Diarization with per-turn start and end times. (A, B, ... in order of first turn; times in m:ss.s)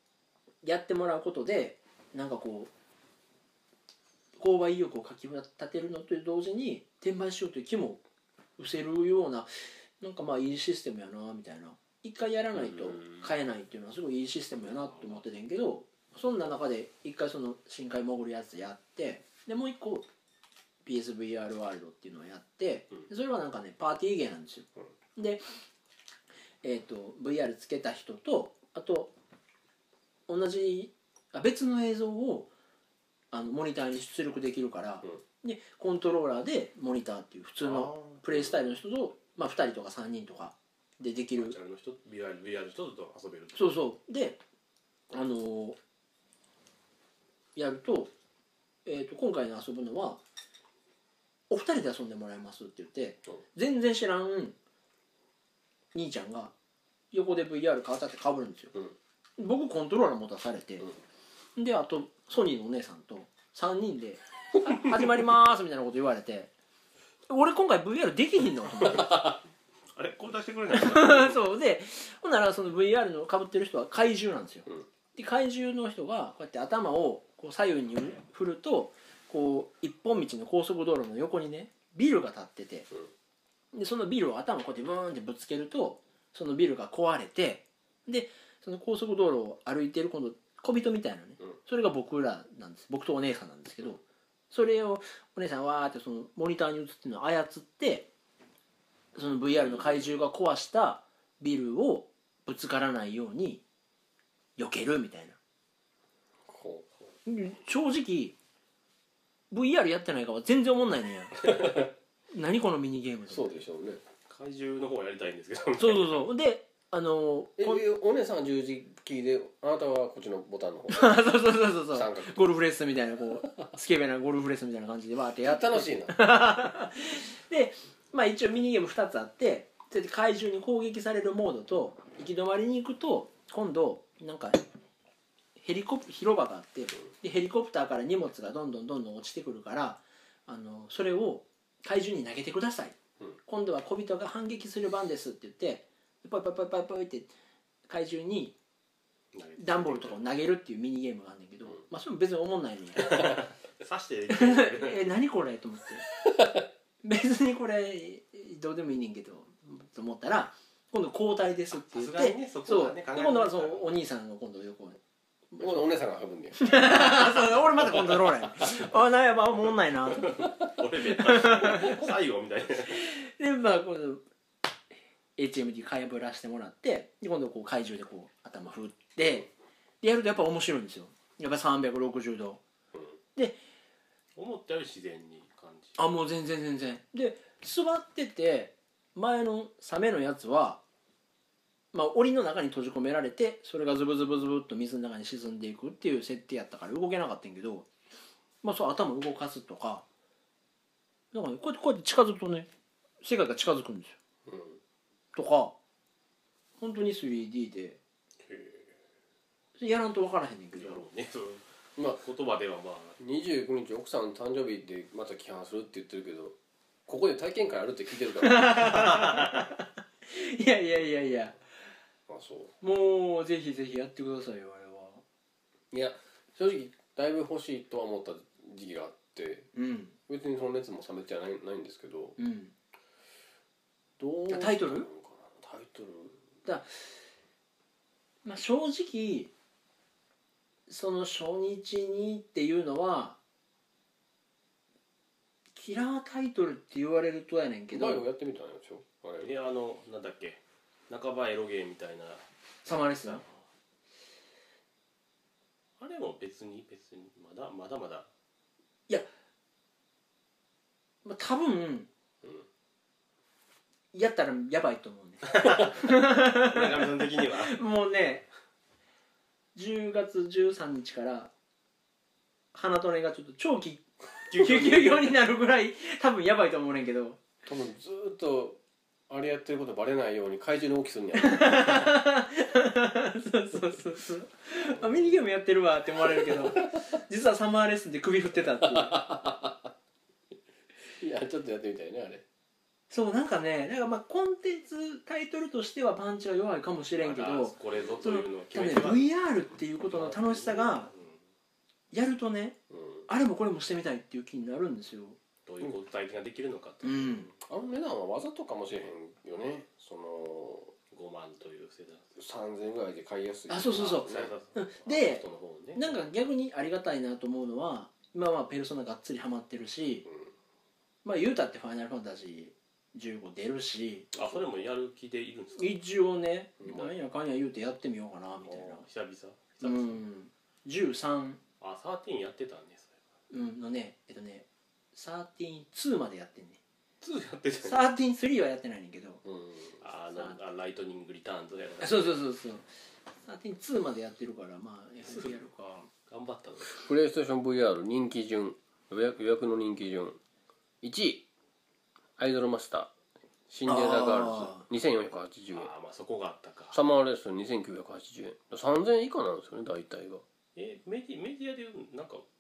0:00.6-0:02.7 A
0:04.4-0:08.0 A
0:08.6-0:20.0 A
0:12.5-0:13.3 B
0:14.7-0:15.2 C
0:20.8-0:25.4 A
0:26.6-0:29.1 A
0:30.3-0:32.5 A
0:33.3-0:41.6 A
0:37.6-0:38.2 C
0:41.3-0:43.8 C
0:43.5-0:44.4 A
0:45.1-0:45.8 A
0:47.5-0:48.1 A
0:48.8-0:50.2 A
0:51.5-0:54.6 A
0:55.9-0:56.5 A
0:57.1-0:58.7 A
0:59.4-1:00.9 A
1:01.6-1:06.5 A
1:07.3-1:09.3 A
1:09.9-1:11.4 C
1:10.7-1:22.9 A
1:23.7-1:38.1 A
1:39.1-1:43.6 A
1:39.6-1:40.1 B
1:44.6-1:45.4 A
1:46.4-1:46.9 B
1:47.2-1:48.4 A
1:49.5-1:51.8 A
1:52.3-1:53.6 A
1:53.3-1:54.0 B
1:54.3-1:56.3 C
1:55.8-1:57.8 A
1:57.6-2:01.2 B
2:00.9-2:14.6 A
2:01.9-2:02.4 B
2:05.4-2:06.2 B
2:15.6-2:27.3 A
2:27.9-2:28.6 A
2:29.3-2:30.2 C
2:29.6-2:33.4 A
2:33.1-2:35.1 C
2:34.3-2:36.0 A
2:37.0-2:45.0 A
2:41.7-2:43.9 C
2:45.5-2:45.9 A
2:45.6-2:48.3 B
2:46.6-2:50.4 A
2:50.2-2:53.0 C
2:51.1-2:52.1 A
2:52.9-2:54.2 A
2:55.4-2:59.5 A
3:00.0-3:02.6 A
3:04.4-3:06.2 C
3:06.0-3:10.8 A
3:11.9-3:17.9 A
3:18.6-3:20.0 A
3:21.3-3:22.7 A
3:23.2-3:24.2 A
3:24.4-3:24.8 B
3:25.3-3:25.8 A
3:26.8-3:28.0 A
3:28.5-3:28.7 B
3:29.8-3:31.0 A
3:30.8-3:33.2 C
3:33.2-3:36.6 B
3:37.1-3:39.1 B
3:38.4-3:41.6 A
3:42.3-3:42.7 B
3:42.8-3:45.2 A
3:45.9-3:49.7 B
3:49.7-3:50.2 A
3:50.3-3:52.4 B
3:52.4-3:52.7 A
3:54.2-3:56.4 B
3:54.5-3:55.1 A
3:58.4-3:59.5 A
4:00.9-4:03.4 A
4:05.7-4:08.2 A
4:07.9-4:09.5 B
4:09.4-4:12.4 C
4:12.8-4:13.4 A
4:13.2-4:13.5 C
4:16.0-4:18.3 C
4:21.2-4:22.1 A
4:24.1-4:28.4 A
4:25.5-4:27.8 C
4:29.7-4:31.5 A
4:32.7-4:37.4 A
4:34.5-4:35.4 C
4:37.6-4:42.1 B
4:41.4-4:49.3 A
4:45.0-4:45.2 B
4:46.2-4:46.8 B
4:48.8-4:49.9 B
4:51.2-4:52.4 B
4:53.1-5:01.1 A
4:57.1-4:59.4 C
4:57.9-4:58.2 B
5:00.1-5:01.4 C
5:02.1-5:02.8 A
5:02.9-5:03.3 B
5:03.3-5:05.4 A
5:05.6-5:07.6 C
5:07.0-5:07.5 A
5:07.6-5:10.9 B
5:11.1-5:12.3 C
5:12.4-5:14.5 B
5:13.7-5:15.4 A
5:13.9-5:16.2 C
5:16.0-5:20.3 A
5:20.3-5:20.5 B
5:21.2-5:24.3 A
5:24.3-5:26.0 C
5:25.8-5:29.0 A
5:26.8-5:27.1 B
5:28.6-5:30.2 C
5:29.8-5:31.6 A
5:31.8-5:33.2 C
5:33.5-5:36.8 A
5:37.2-5:38.0 C
5:37.8-5:39.4 A
5:39.4-5:40.0 B
5:40.0-5:42.4 C
5:42.0-5:42.8 A
5:43.4-5:46.1 A
5:45.3-5:45.6 C
5:46.3-5:47.0 C
5:46.9-5:50.4 B
5:51.0-5:51.5 B
5:52.4-5:53.1 B
5:53.7-5:55.9 B
5:53.8-5:54.8 A
5:55.7-5:57.0 C
5:56.9-6:00.4 B
6:00.8-6:02.4 C